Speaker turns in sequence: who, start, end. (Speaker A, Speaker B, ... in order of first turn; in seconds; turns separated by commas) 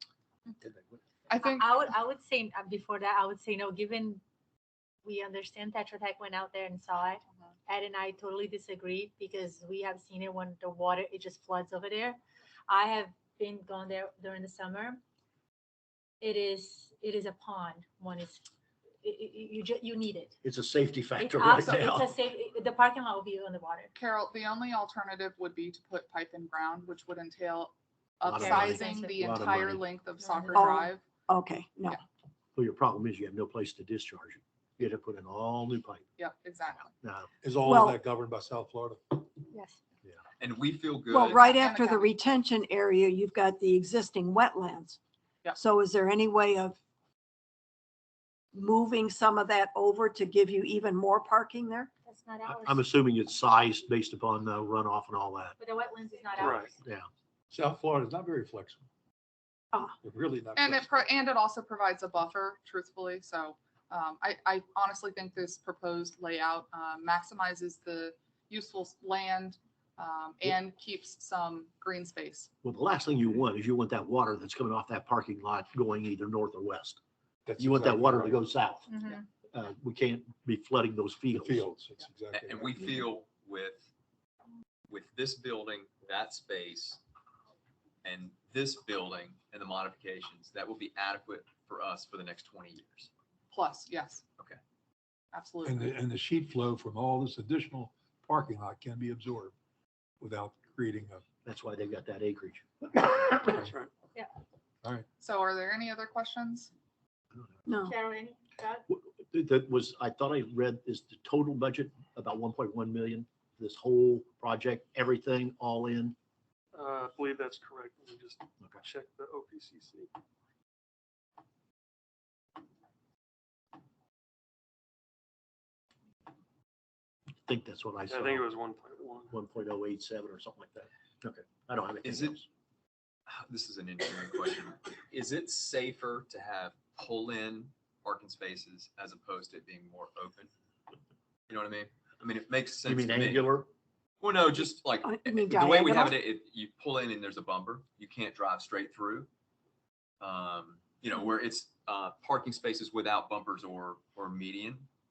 Speaker A: 0.6-0.9, Speaker B: 1.3-1.8, Speaker C: 1.4-4.2, Speaker C: 5.0-15.0, Speaker C: 16.2-18.4, Speaker C: 19.0-20.3, Speaker A: 20.4-22.1, Speaker C: 21.1-23.9, Speaker B: 23.9-31.0, Speaker A: 28.2-29.8, Speaker C: 28.3-29.3, Speaker C: 30.2-30.8, Speaker D: 30.5-32.0, Speaker A: 32.5-36.0, Speaker B: 36.2-36.9, Speaker A: 37.0-37.3, Speaker E: 37.4-39.3, Speaker D: 37.6-38.0, Speaker C: 39.5-39.8, Speaker F: 40.4-41.4, Speaker D: 41.1-45.0, Speaker B: 41.4-42.1, Speaker D: 45.5-46.8, Speaker D: 48.5-51.9, Speaker C: 52.0-52.9, Speaker A: 52.5-55.6, Speaker C: 55.6-56.8, Speaker A: 56.4-57.1, Speaker G: 56.4-56.7, Speaker E: 57.5-58.8, Speaker E: 60.0-61.0, Speaker B: 60.5-72.5, Speaker A: 72.6-77.0, Speaker E: 77.5-78.5, Speaker A: 77.6-81.7, Speaker C: 78.9-79.2, Speaker E: 81.4-82.8, Speaker F: 82.3-83.9, Speaker F: 84.9-87.0, Speaker F: 88.0-93.1, Speaker B: 93.5-94.2, Speaker B: 95.3-95.9, Speaker E: 95.6-99.5, Speaker E: 100.2-101.2, Speaker A: 101.4-103.0, Speaker G: 103.6-103.9, Speaker B: 105.2-106.7, Speaker D: 107.7-107.9, Speaker C: 107.8-108.8, Speaker A: 108.9-116.2, Speaker G: 116.7-120.1, Speaker A: 127.5-128.4, Speaker G: 128.1-129.3, Speaker A: 129.3-132.5, Speaker F: 132.0-132.3, Speaker F: 133.3-140.5, Speaker F: 141.5-143.5, Speaker A: 142.8-143.7, Speaker F: 144.2-149.3, Speaker D: 145.0-146.2, Speaker F: 150.2-154.9